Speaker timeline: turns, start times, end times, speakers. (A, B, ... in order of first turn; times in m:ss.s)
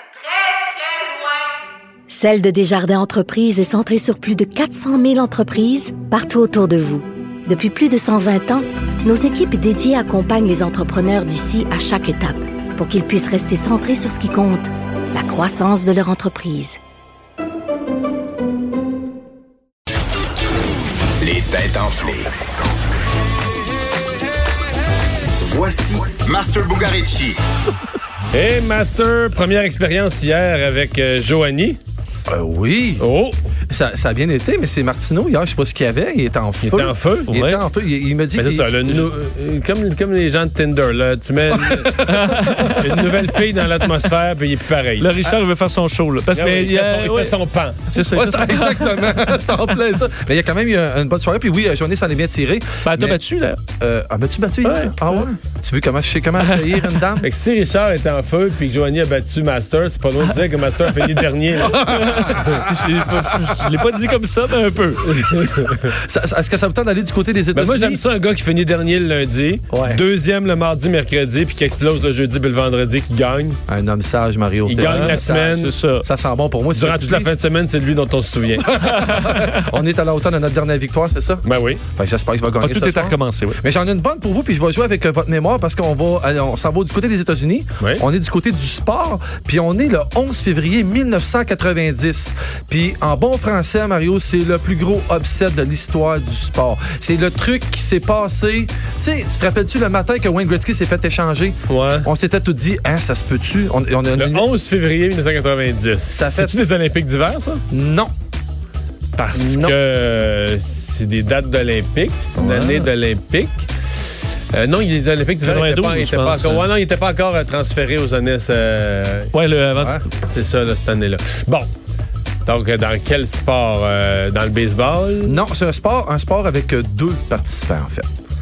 0:00.4-0:01.2 A
0:02.1-0:16.8 A
0:21.2-0:22.3 B
0:25.4-0:27.4 B
0:28.3-0:31.8 C
0:32.3-0:33.0 D
0:33.0-0:33.4 C
0:33.7-0:39.1 D
0:36.6-0:37.3 C
0:37.3-0:37.6 E
0:38.4-0:42.0 C
0:41.6-0:43.0 D
0:42.1-0:42.9 E
0:42.8-0:45.1 C
0:45.0-0:47.4 E
0:46.3-0:47.9 C
0:47.9-0:49.1 E
0:48.0-0:53.2 D
0:52.8-0:53.6 E
0:53.8-0:57.3 D
0:54.6-0:55.2 E
0:57.2-1:02.6 C
1:01.6-1:03.7 D
1:01.8-1:05.4 E
1:05.1-1:06.0 C
1:05.9-1:08.0 D
1:07.6-1:13.6 C
1:09.7-1:10.0 D
1:13.7-1:17.3 D
1:14.7-1:15.7 C
1:14.8-1:16.1 E
1:16.7-1:18.8 C
1:18.6-1:44.5 D
1:18.8-1:19.7 E
1:21.4-1:21.8 C
1:22.6-1:23.6 E
1:41.7-1:42.1 C
1:44.2-1:47.6 C
1:46.1-1:46.6 D
1:47.7-1:48.1 D
1:49.2-1:59.3 C
1:49.3-1:49.8 D
1:55.4-1:56.7 E
1:59.3-2:00.1 E
1:59.8-2:00.0 D
2:00.2-2:01.7 C
2:02.5-2:05.4 C
2:05.2-2:08.1 D